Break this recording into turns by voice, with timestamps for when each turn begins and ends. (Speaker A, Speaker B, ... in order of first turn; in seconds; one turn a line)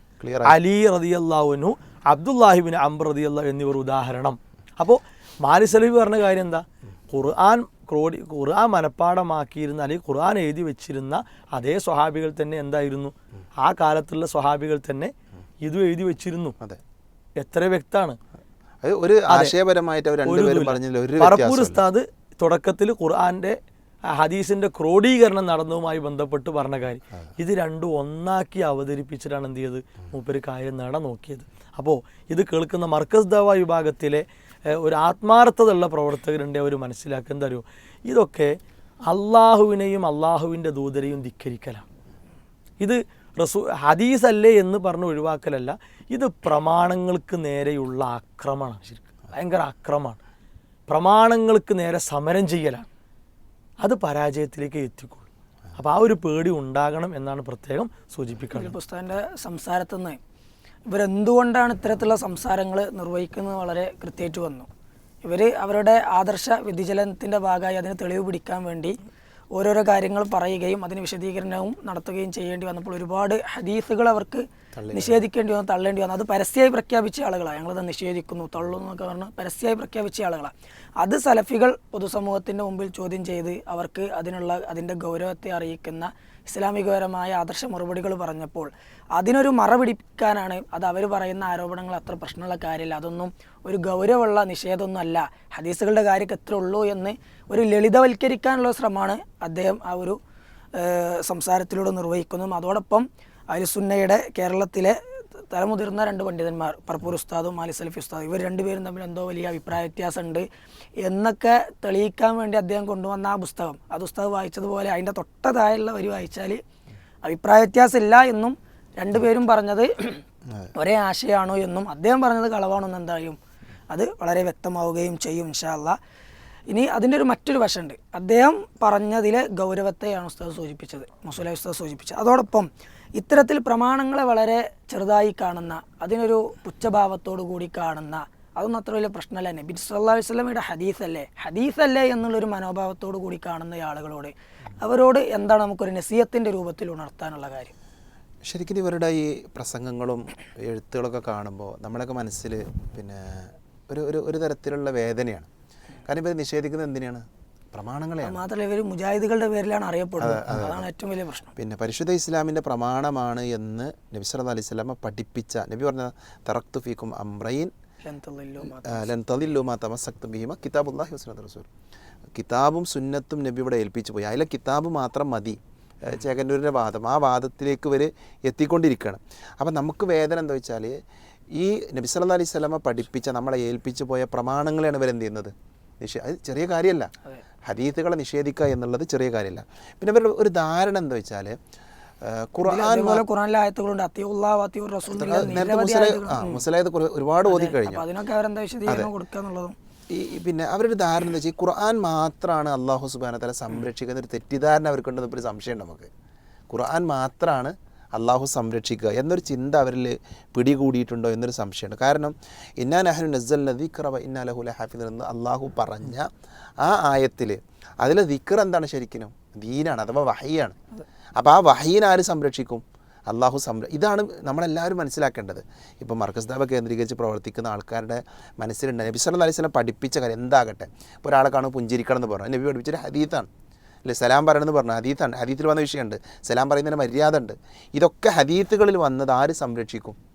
Speaker A: 0.2-0.6
Speaker B: 0.5-16.6
Speaker B: 17.4-18.2
Speaker A: 18.8-21.8
Speaker B: 19.3-19.5
Speaker B: 20.2-23.6
Speaker B: 24.1-41.9
Speaker B: 42.8-50.2
Speaker B: 50.9-52.9
Speaker B: 53.8-58.8
Speaker C: 58.5-60.2
Speaker C: 60.9-64.7
Speaker C: 65.2-69.0
Speaker C: 69.5-100.2
Speaker A: 74.7-75.2
Speaker C: 100.8-105.0
Speaker C: 105.5-110.5
Speaker C: 111.0-116.6
Speaker C: 117.2-120.2
Speaker C: 120.8-123.4
Speaker C: 123.9-126.0
Speaker C: 126.7-147.7
Speaker A: 148.4-155.5
Speaker A: 156.1-158.4
Speaker C: 158.2-161.5
Speaker A: 160.2-160.9
Speaker A: 161.6-167.7
Speaker C: 168.0-169.1
Speaker A: 168.9-171.7
Speaker A: 172.3-181.0
Speaker A: 181.5-187.1
Speaker A: 187.6-191.6
Speaker A: 192.2-193.2
Speaker C: 192.7-196.6
Speaker A: 195.1-198.0
Speaker C: 197.5-199.8
Speaker A: 200.1-206.1
Speaker A: 206.7-216.3
Speaker A: 216.8-220.8
Speaker A: 221.4-233.5
Speaker A: 234.1-240.2